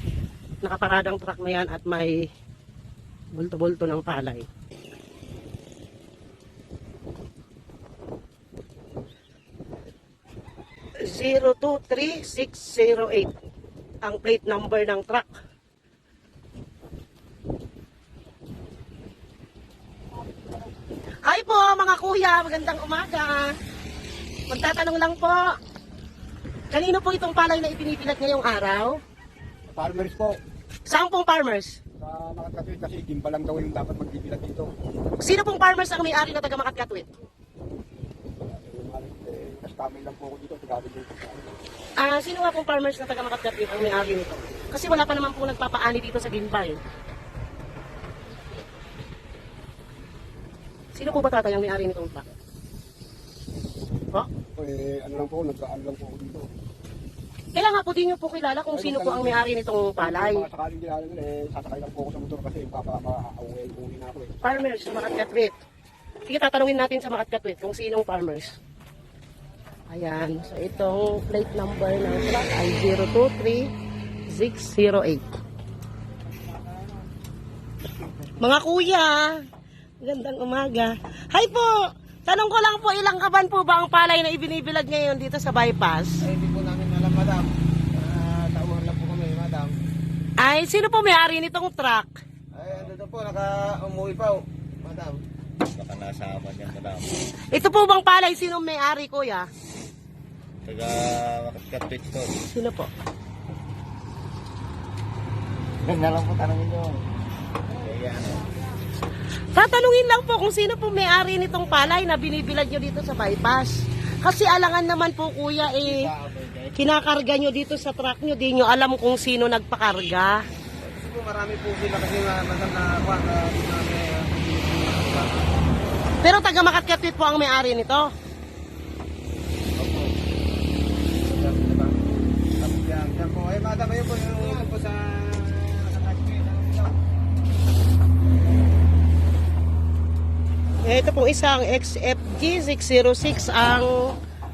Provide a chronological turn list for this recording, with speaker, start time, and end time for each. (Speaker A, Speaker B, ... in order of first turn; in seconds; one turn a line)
Speaker A: 0.6-2.3
Speaker A: 3.3-4.5
Speaker A: 11.0-13.3
Speaker A: 14.0-15.3
Speaker A: 21.2-23.6
Speaker A: 24.5-25.6
Speaker A: 26.7-29.0
Speaker B: 29.7-30.4
Speaker A: 30.9-31.8
Speaker B: 32.0-34.7
Speaker A: 35.2-37.1
Speaker B: 38.4-41.5
Speaker A: 42.0-46.8
Speaker A: 51.0-52.3
Speaker B: 54.6-56.5
Speaker A: 57.5-60.5
Speaker B: 58.7-64.3
Speaker A: 64.4-65.6
Speaker A: 66.3-68.6
Speaker A: 69.9-73.7
Speaker A: 74.3-75.3
Speaker A: 78.4-79.4
Speaker A: 80.0-86.2
Speaker C: 86.2-89.7
Speaker A: 90.4-92.2
Speaker C: 92.5-95.2
Speaker D: 95.7-97.2
Speaker A: 97.5-99.5
Speaker D: 100.7-102.4
Speaker A: 102.5-102.9
Speaker D: 105.8-107.1
Speaker D: 107.7-108.5
Speaker A: 109.5-116.1
Speaker D: 115.8-116.8
Speaker A: 116.8-120.4
Speaker C: 120.8-125.8
Speaker A: 126.2-128.1
Speaker C: 129.8-130.1
Speaker C: 131.2-132.0
Speaker C: 132.6-136.9
Speaker A: 140.8-144.2